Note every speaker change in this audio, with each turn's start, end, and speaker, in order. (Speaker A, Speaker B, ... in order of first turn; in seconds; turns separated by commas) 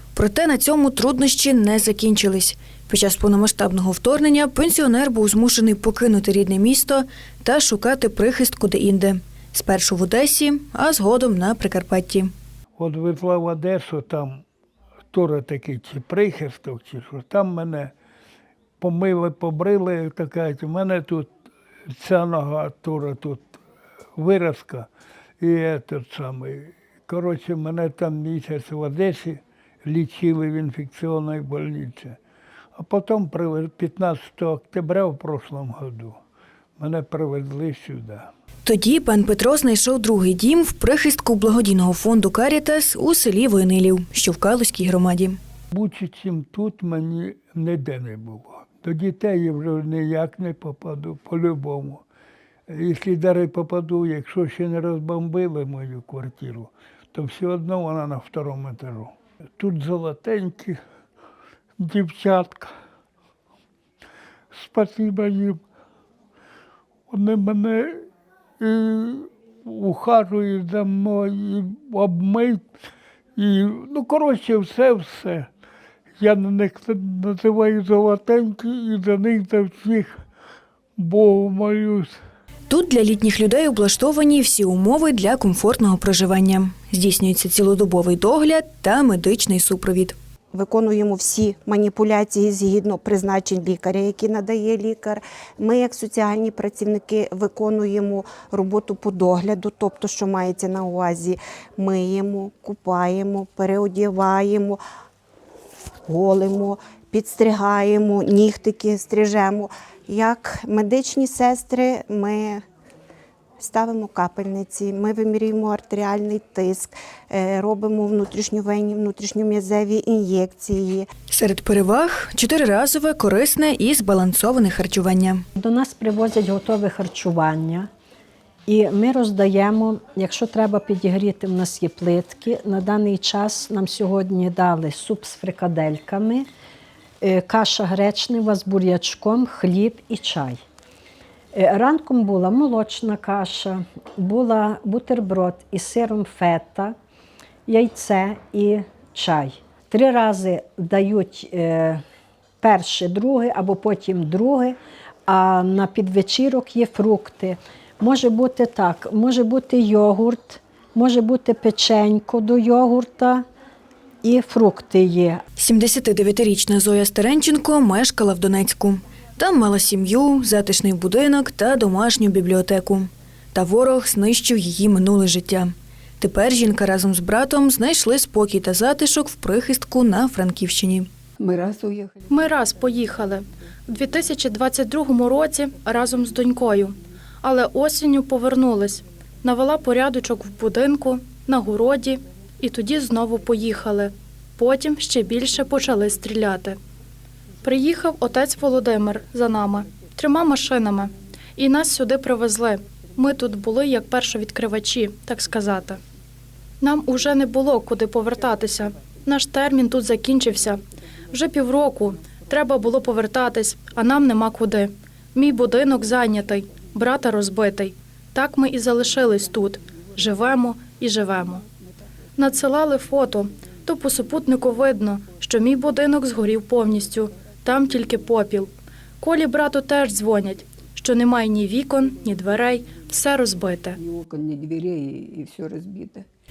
Speaker A: 0.1-12.3, Speaker B: 12.8-14.4, Speaker B: 15.1-17.9, Speaker B: 18.8-21.3, Speaker B: 21.9-23.6, Speaker B: 24.2-24.9, Speaker B: 25.4-32.2, Speaker B: 32.8-36.2, Speaker B: 36.8-38.3, Speaker A: 38.6-45.4, Speaker B: 45.7-52.0, Speaker B: 52.7-60.8, Speaker B: 61.8-62.7, Speaker B: 64.5-65.6, Speaker B: 67.1-68.1, Speaker B: 68.6-72.6, Speaker B: 73.4-75.5, Speaker B: 76.2-80.2, Speaker B: 81.0-82.2, Speaker A: 82.7-90.2, Speaker C: 90.5-104.8, Speaker C: 106.1-112.6, Speaker C: 113.6-121.1, Speaker A: 121.3-125.4, Speaker D: 125.6-127.9, Speaker D: 128.7-136.5, Speaker D: 137.2-140.6, Speaker D: 141.5-146.9, Speaker D: 147.7-152.0, Speaker D: 152.6-163.4, Speaker D: 164.2-165.4, Speaker A: 165.6-181.1, Speaker E: 181.4-182.1, Speaker F: 182.3-196.8, Speaker F: 197.6-206.0, Speaker F: 206.8-221.6, Speaker F: 222.4-234.0, Speaker E: 234.1-236.2